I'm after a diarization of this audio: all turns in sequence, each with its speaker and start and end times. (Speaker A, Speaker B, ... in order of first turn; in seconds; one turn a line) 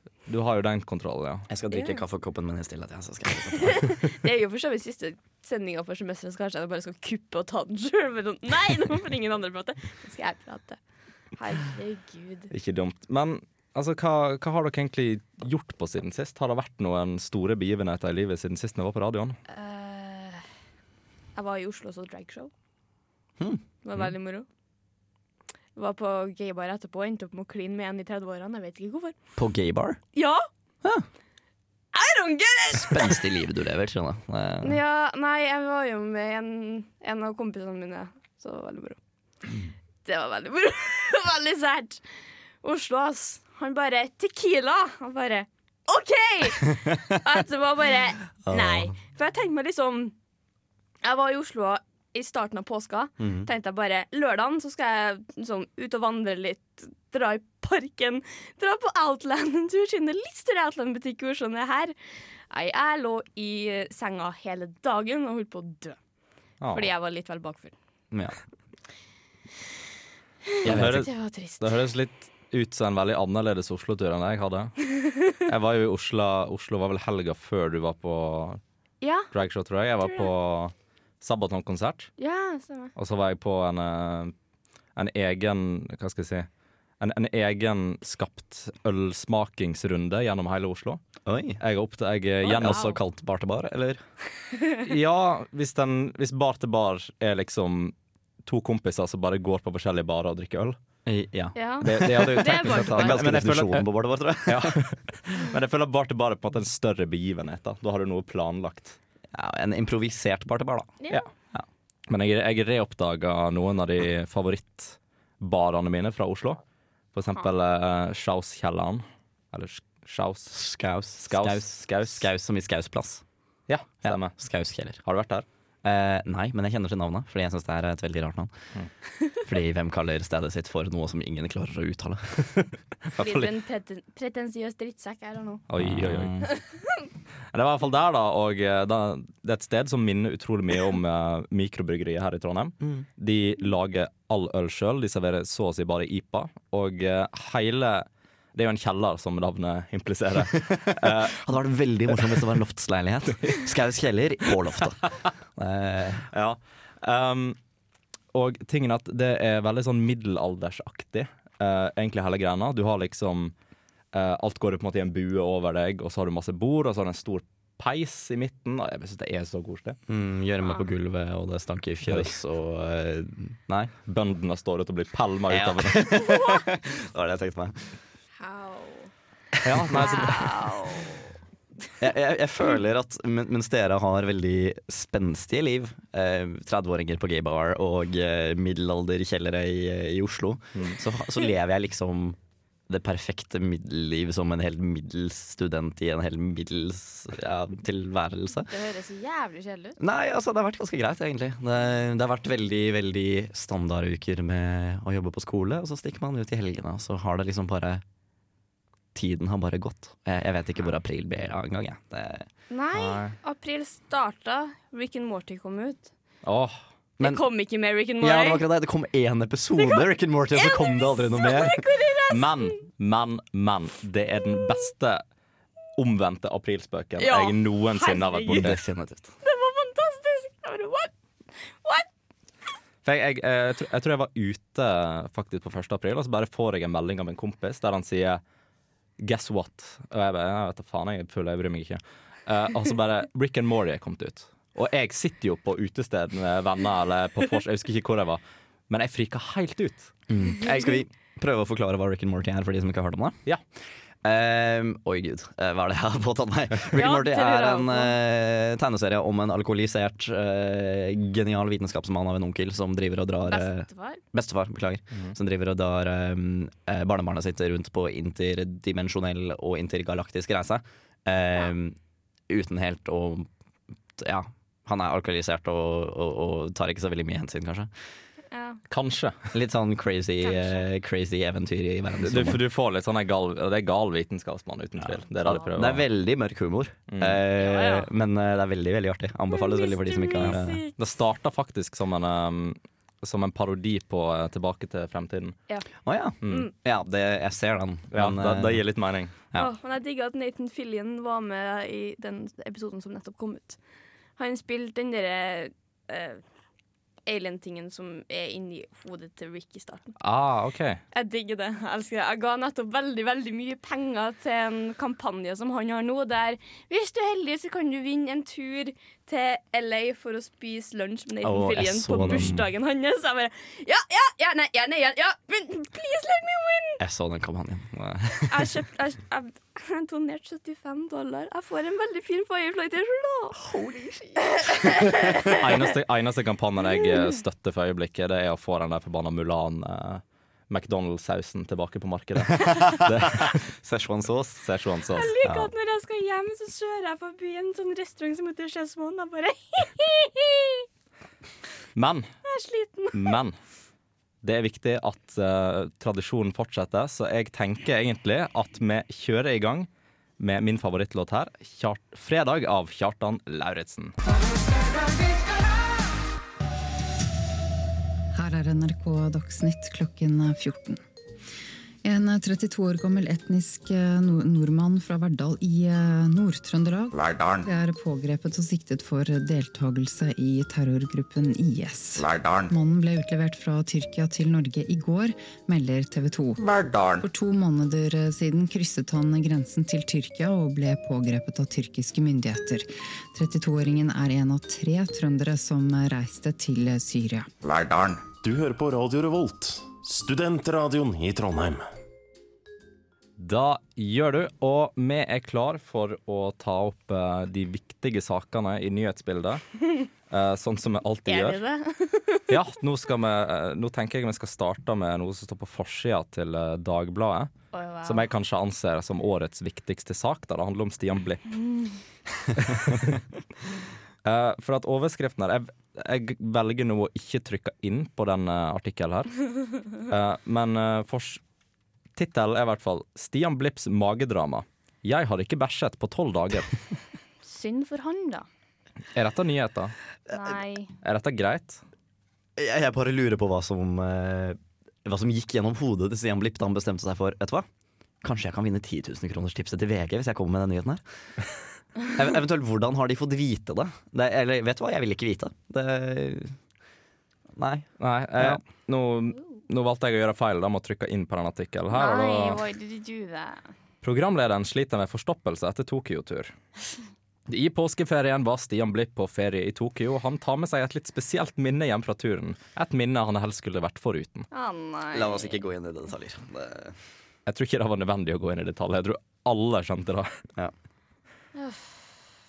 Speaker A: 0.3-1.5
Speaker B: 1.5-4.0
Speaker C: 1.7-2.0
Speaker C: 3.5-10.8
Speaker C: 11.3-12.5
Speaker A: 12.5-19.4
Speaker C: 19.5-20.4
Speaker C: 21.3-22.5
Speaker C: 23.8-24.5
Speaker C: 25.7-29.1
Speaker B: 29.4-30.0
Speaker C: 30.1-30.4
Speaker C: 31.9-33.2
Speaker B: 32.7-34.8
Speaker C: 34.6-39.0
Speaker C: 40.0-42.0
Speaker C: 42.6-50.1
Speaker B: 48.5-48.9
Speaker C: 51.0-61.9
Speaker B: 53.2-53.5
Speaker C: 62.5-66.0
Speaker A: 66.6-66.9
Speaker C: 66.7-67.7
Speaker B: 68.1-68.4
Speaker B: 70.6-71.1
Speaker C: 70.6-71.8
Speaker A: 70.7-74.7
Speaker A: 75.4-78.6
Speaker C: 79.0-79.3
Speaker A: 79.3-82.1
Speaker C: 80.0-80.3
Speaker C: 82.2-82.9
Speaker A: 83.0-84.3
Speaker A: 85.0-86.5
Speaker A: 87.0-91.0
Speaker B: 91.2-91.6
Speaker A: 91.6-92.8
Speaker C: 92.4-93.0
Speaker B: 92.5-94.0
Speaker A: 94.8-100.8
Speaker B: 101.0-104.8
Speaker C: 101.5-103.2
Speaker A: 101.8-103.9
Speaker A: 104.5-109.0
Speaker B: 109.3-110.9
Speaker A: 112.1-116.6
Speaker A: 117.1-120.5
Speaker B: 120.5-123.2
Speaker A: 121.2-122.3
Speaker A: 123.7-124.4
Speaker B: 124.0-125.0
Speaker A: 125.0-125.4
Speaker B: 125.8-128.5
Speaker B: 129.4-132.6
Speaker A: 133.1-133.5
Speaker C: 133.2-135.6
Speaker A: 135.7-136.3
Speaker B: 135.8-136.5
Speaker A: 137.5-151.4
Speaker B: 150.7-156.3
Speaker A: 156.3-157.6
Speaker A: 158.3-163.5
Speaker A: 164.1-170.0
Speaker B: 170.1-173.9
Speaker A: 174.1-176.0
Speaker B: 175.5-177.9
Speaker C: 178.4-179.1
Speaker A: 179.6-180.6
Speaker B: 179.9-180.2
Speaker C: 179.9-181.3
Speaker B: 182.0-192.4
Speaker B: 192.9-198.7
Speaker C: 198.7-200.0
Speaker B: 200.0-208.0
Speaker B: 209.1-212.5
Speaker C: 212.7-216.1
Speaker A: 212.9-213.3
Speaker A: 216.4-216.8
Speaker C: 217.2-218.6
Speaker B: 218.2-221.8
Speaker C: 219.8-222.7
Speaker A: 222.3-225.2
Speaker A: 226.0-228.8
Speaker C: 227.2-228.7
Speaker B: 228.5-229.3
Speaker C: 229.4-231.1
Speaker C: 231.7-232.1
Speaker A: 233.0-238.4
Speaker A: 239.2-250.1
Speaker B: 250.3-253.4
Speaker B: 254.2-271.9
Speaker C: 256.9-258.2
Speaker C: 263.5-264.2
Speaker B: 272.5-273.5
Speaker B: 274.2-277.9
Speaker C: 278.5-278.8
Speaker A: 278.9-279.4
Speaker B: 279.5-282.6
Speaker C: 280.4-280.8
Speaker A: 282.2-286.0
Speaker B: 285.0-290.8
Speaker A: 287.1-287.4
Speaker C: 287.6-288.1
Speaker C: 289.5-290.9
Speaker A: 290.4-295.6
Speaker B: 296.0-298.8
Speaker A: 298.1-299.3
Speaker C: 299.5-303.8
Speaker C: 304.4-306.4
Speaker C: 307.2-310.1
Speaker A: 310.2-311.0
Speaker C: 311.1-327.0
Speaker B: 321.4-322.6
Speaker A: 322.2-322.5
Speaker B: 327.0-328.7
Speaker C: 328.5-335.9
Speaker A: 335.4-343.6
Speaker B: 342.6-344.6
Speaker A: 344.6-345.3
Speaker C: 345.1-350.8
Speaker B: 345.4-345.7
Speaker A: 351.9-352.3
Speaker C: 352.4-353.4
Speaker A: 353.1-353.6
Speaker A: 354.4-359.9
Speaker A: 360.4-364.1
Speaker D: 368.3-371.0
Speaker D: 372.0-386.7
Speaker E: 377.1-377.6
Speaker E: 382.2-382.7
Speaker E: 386.6-387.2
Speaker D: 387.2-397.5
Speaker E: 397.6-401.9
Speaker A: 403.4-409.6
Speaker A: 410.3-411.6
Speaker C: 411.3-412.5
Speaker A: 412.5-417.5
Speaker C: 417.7-418.3
Speaker A: 418.0-421.5
Speaker A: 422.6-423.2
Speaker A: 424.2-429.4
Speaker A: 429.9-431.4
Speaker A: 432.1-436.8
Speaker C: 437.4-438.4
Speaker A: 439.1-439.9
Speaker C: 440.3-440.9
Speaker A: 441.0-441.8
Speaker B: 442.6-447.6
Speaker B: 448.2-451.0
Speaker B: 452.1-456.6
Speaker B: 457.6-458.6
Speaker A: 458.0-462.6
Speaker C: 461.9-463.6
Speaker A: 464.0-466.5
Speaker A: 467.5-474.5
Speaker C: 474.5-475.6
Speaker B: 475.1-476.9
Speaker A: 477.4-480.3
Speaker C: 481.5-481.9